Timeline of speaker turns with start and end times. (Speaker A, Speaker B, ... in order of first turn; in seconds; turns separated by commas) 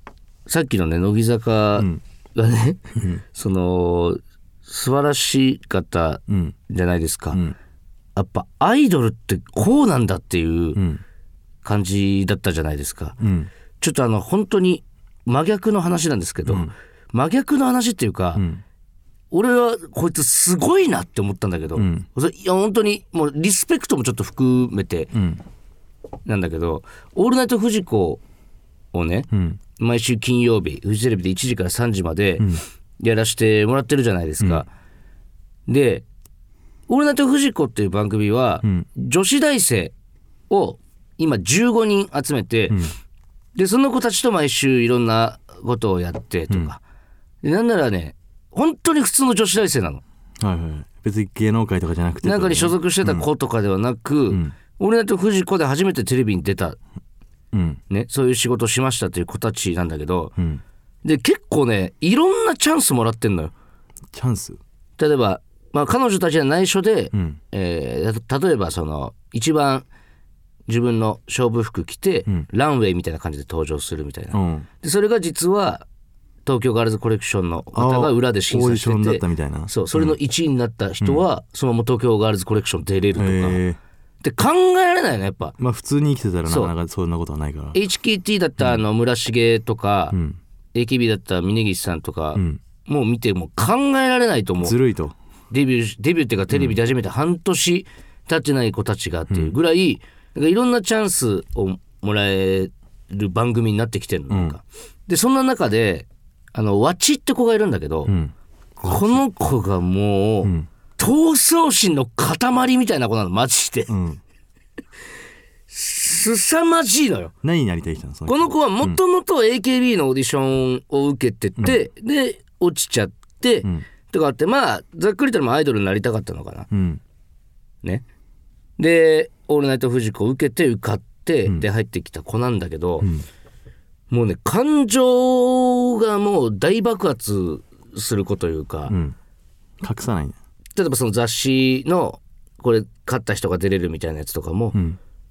Speaker A: 0.5-7.4, Speaker B: 6.3-6.5, Speaker A: 8.2-10.8, Speaker B: 10.8-11.0, Speaker A: 11.6-13.2, Speaker B: 13.2-13.5, Speaker A: 13.8-18.4, Speaker B: 16.5-16.7, Speaker B: 18.4-18.6, Speaker A: 19.3-25.1, Speaker B: 21.8-22.1, Speaker B: 25.1-25.4, Speaker A: 26.3-28.2, Speaker A: 28.9-34.7, Speaker B: 29.3-29.6, Speaker B: 34.4-34.6, Speaker A: 35.7-36.0, Speaker A: 36.9-40.0, Speaker A: 40.5-42.9, Speaker A: 43.6-46.8, Speaker A: 47.4-50.0, Speaker B: 50.4-53.3, Speaker A: 52.2-56.8, Speaker B: 57.5-57.8, Speaker A: 57.9-60.4, Speaker B: 60.4-60.6, Speaker A: 61.0-63.5, Speaker B: 64.1-64.6, Speaker A: 65.0-69.9, Speaker B: 67.1-67.4, Speaker A: 70.7-75.8, Speaker B: 74.3-74.7, Speaker A: 76.5-83.6, Speaker B: 77.8-80.2, Speaker B: 83.2-83.8, Speaker A: 84.2-85.5, Speaker B: 85.6-87.8, Speaker A: 86.5-86.7, Speaker A: 87.7-90.2, Speaker B: 90.1-90.4, Speaker A: 90.7-94.8, Speaker B: 92.3-92.6, Speaker B: 94.6-95.2, Speaker A: 95.5-108.1, Speaker B: 96.5-96.8, Speaker B: 99.3-99.6, Speaker B: 104.3-104.6, Speaker B: 108.1-109.2, Speaker A: 108.8-114.0, Speaker B: 113.9-114.2, Speaker A: 115.7-117.3, Speaker B: 117.4-119.0, Speaker A: 118.3-126.7, Speaker B: 126.7-127.0, Speaker A: 128.8-133.1, Speaker A: 134.1-139.0, Speaker B: 138.9-139.2, Speaker B: 139.8-140.4, Speaker A: 140.8-144.8